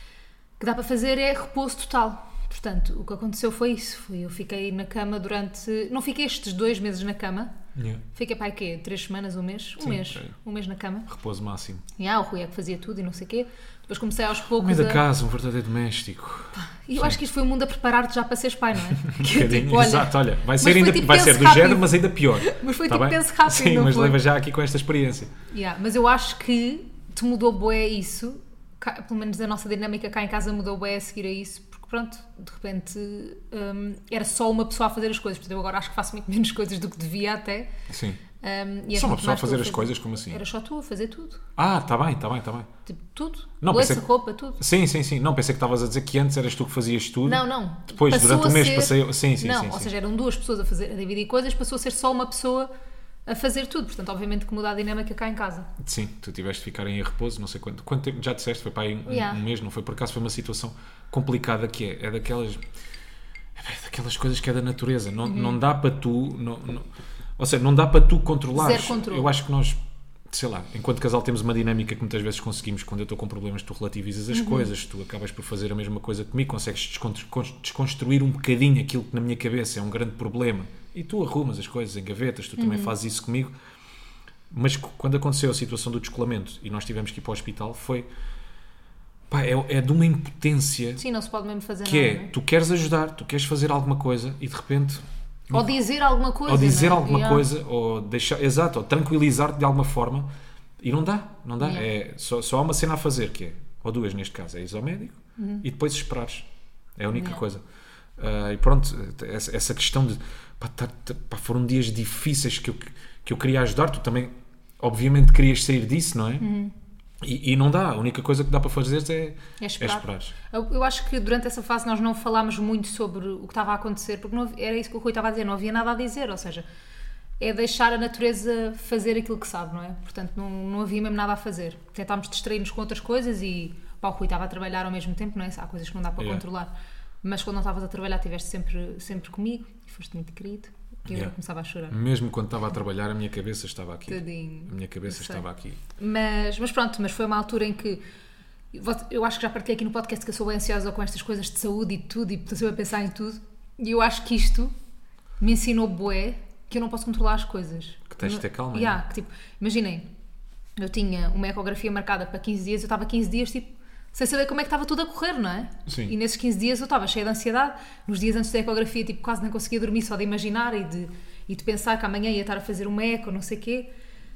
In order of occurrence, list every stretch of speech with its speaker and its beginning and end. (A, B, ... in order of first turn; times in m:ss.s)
0:00.6-0:07.5 A
0:07.7-0:08.0 B
0:08.1-0:11.1 A
0:09.8-0:10.3 B
0:11.1-0:11.8 B
0:12.0-0:15.0 A
0:14.6-0:17.2 B
0:16.5-0:24.2 A
0:19.0-0:25.3 B
0:25.5-0:37.7 A
0:37.9-0:38.2 B
0:38.4-0:41.4 A
0:38.9-0:40.4 B
0:41.6-0:42.7 B
0:42.8-0:44.6 A
0:43.6-0:44.0 B
0:44.6-0:49.9 B
0:47.2-0:52.7 A
0:53.2-0:55.7 A
0:55.8-1:02.6 B
0:59.1-0:59.4 A
1:03.6-1:06.9 B
1:05.2-1:05.6 A
1:07.4-1:09.8 B
1:08.5-1:09.3 A
1:10.3-1:23.5 B
1:14.3-1:14.7 A
1:22.6-1:22.9 A
1:24.5-1:28.1 B
1:29.3-1:31.0 B
1:31.0-1:32.3 A
1:31.8-1:35.7 B
1:35.5-1:37.5 A
1:36.4-1:40.3 B
1:40.8-1:47.6 B
1:41.6-1:41.9 A
1:45.4-1:45.6 A
1:47.1-1:47.4 A
1:48.2-1:56.4 B
1:56.4-1:56.7 A
1:57.2-2:00.3 B
1:59.6-2:06.6 A
2:07.4-2:16.7 A
2:17.2-2:22.0 A
2:21.9-2:25.8 B
2:24.1-2:25.4 A
2:26.0-2:28.0 A
2:28.7-2:34.7 A
2:35.4-2:40.0 A
2:38.1-2:39.0 B
2:40.8-2:53.9 A
2:45.9-2:46.1 B